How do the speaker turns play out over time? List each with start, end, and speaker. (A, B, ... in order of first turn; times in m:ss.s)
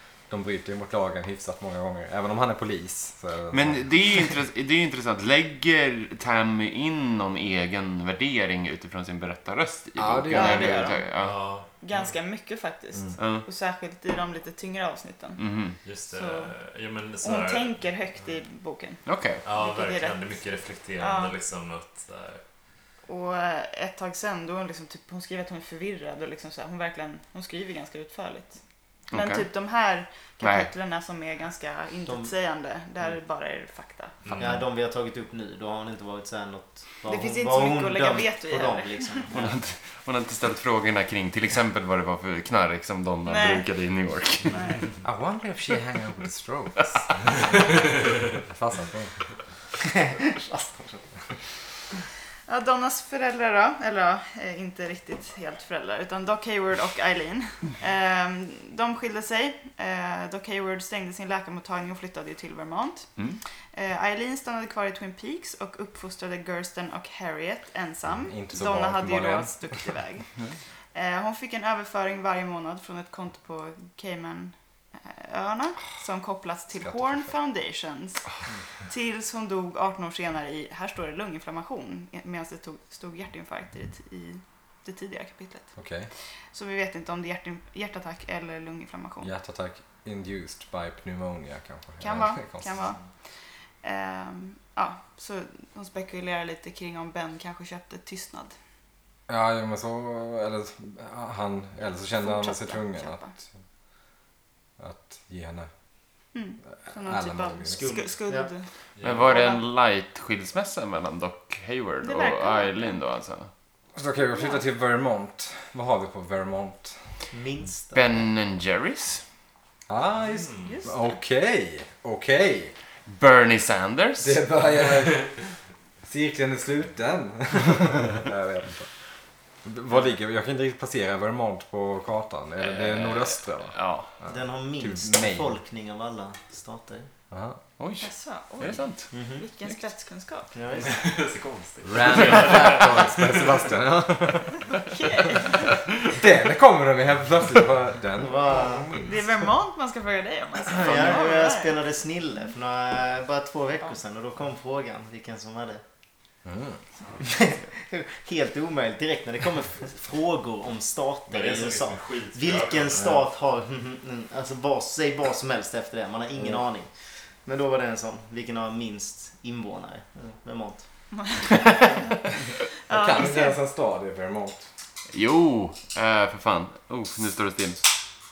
0:00.3-0:03.9 A
0:03.5-0:11.5 B
0:10.0-0:10.9 A
0:10.3-0:11.2 C
0:11.2-0:12.1 D
0:11.7-0:15.4 C
0:13.2-0:13.5 B
0:15.4-0:15.8 B
0:15.8-0:18.3 D
0:16.1-0:16.5 C
0:17.2-0:20.2 C
0:19.0-0:19.4 B
0:19.4-0:22.4 D
0:21.0-0:21.3 C
0:23.1-0:28.6 C
0:29.1-0:29.5 B
0:29.1-0:34.3 C
0:30.4-0:30.7 B
0:32.1-0:32.3 E
0:34.2-0:34.6 D
0:34.4-0:39.6 E
0:37.1-0:39.3 C
0:39.3-0:44.6 B
0:43.3-0:43.7 C
0:44.5-0:44.9 C
0:45.0-0:46.8 A
0:46.8-0:47.1 B
0:47.4-0:47.8 D
0:48.4-0:49.3 A
0:49.8-0:51.0 E
0:52.5-1:03.1 C
1:03.7-1:10.3 C
1:08.2-1:09.9 A
1:10.9-1:18.3 C
1:16.8-1:17.2 A
1:18.8-1:25.7 C
1:25.8-1:26.1 A
1:26.5-1:29.3 C
1:29.2-1:32.9 A
1:32.0-1:33.1 C
1:33.8-1:38.5 C
1:39.3-1:43.5 A
1:42.2-1:43.3 C
1:44.8-1:45.7 A
1:46.3-1:48.7 C
1:46.8-1:48.0 A
1:47.7-1:48.5 E
1:49.0-1:49.2 D
1:49.0-1:53.5 B
1:49.2-1:49.6 C
1:52.0-1:53.0 C
1:54.0-1:57.0 A
1:54.4-1:54.6 C
1:57.3-1:58.3 E
1:57.9-1:59.2 B
1:59.9-2:02.7 A
2:00.3-2:00.8 D
2:00.6-2:01.1 C
2:03.1-2:04.4 B
2:04.2-2:05.3 A
2:06.0-2:08.9 A
2:09.6-2:15.6 A
2:12.6-2:14.1 B
2:14.3-2:17.1 E
2:17.3-2:17.6 A
2:17.8-2:19.8 B
2:18.0-2:20.6 C
2:19.1-2:19.4 E
2:20.6-2:21.0 E
2:20.8-2:23.6 D
2:21.8-2:24.6 A
2:22.2-2:22.5 B
2:24.9-2:25.8 C
2:26.0-2:29.2 A
2:28.2-2:29.0 E
2:29.0-2:31.8 C
2:30.7-2:35.8 E
2:36.4-2:36.8 A
2:37.2-2:46.9 E
2:41.3-2:43.1 D
2:47.4-2:51.4 E
2:51.2-2:52.3 C
2:52.9-2:53.6 C
2:52.9-2:54.7 A
2:55.1-2:57.9 B